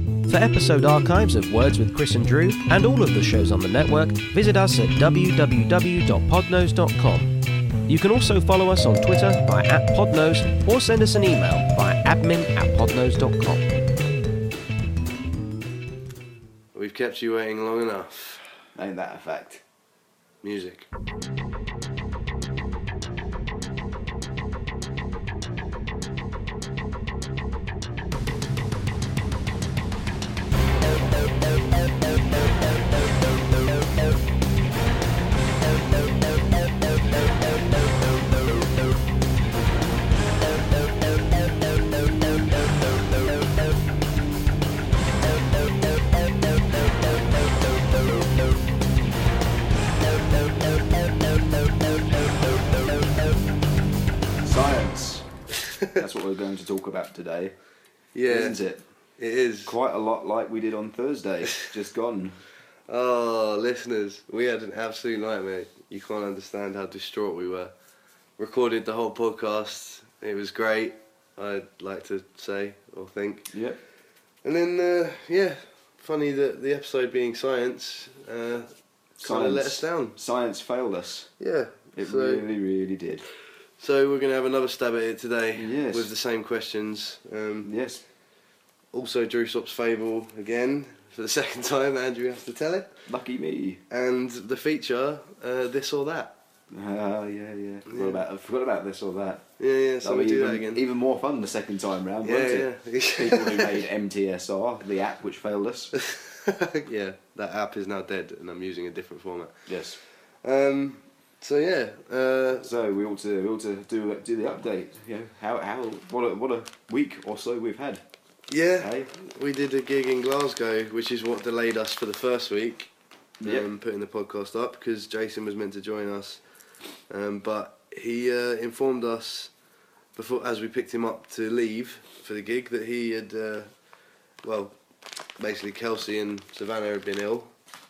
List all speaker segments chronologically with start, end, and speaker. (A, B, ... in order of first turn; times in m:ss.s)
0:00.3-0:07.3 A
0:07.9-0:13.7 A
0:16.7-0:18.6 B
0:18.7-0:19.6 C
0:20.4-0:20.9 B
0:54.4-0:55.3 C
0:55.6-0:56.0 B
0:55.9-0:57.5 C
0:58.1-0:58.6 B
0:58.2-0:58.8 C
0:59.2-0:59.8 B
0:59.6-1:02.4 C
1:02.9-1:07.7 B
1:08.4-1:13.5 B
1:13.5-1:13.8 C
1:14.4-1:20.2 B
1:19.2-1:21.3 C
1:21.4-1:22.4 B
1:22.0-1:23.2 C
1:23.8-1:27.7 B
1:25.5-1:26.1 C
1:27.6-1:28.0 C
1:28.9-1:33.0 B
1:33.0-1:33.8 C
1:33.9-1:36.4 B
1:36.7-1:39.5 C
1:37.9-1:38.2 B
1:39.6-1:40.8 B
1:40.0-1:45.9 C
1:42.2-1:43.8 B
1:46.1-1:52.7 B
1:49.7-1:50.0 C
1:52.6-1:58.0 C
1:58.5-2:02.9 B
1:58.8-1:59.1 C
2:03.4-2:03.7 C
2:03.4-2:06.4 B
2:07.1-2:09.5 B
2:10.1-2:13.7 B
2:14.4-2:14.8 B
2:15.4-2:17.5 B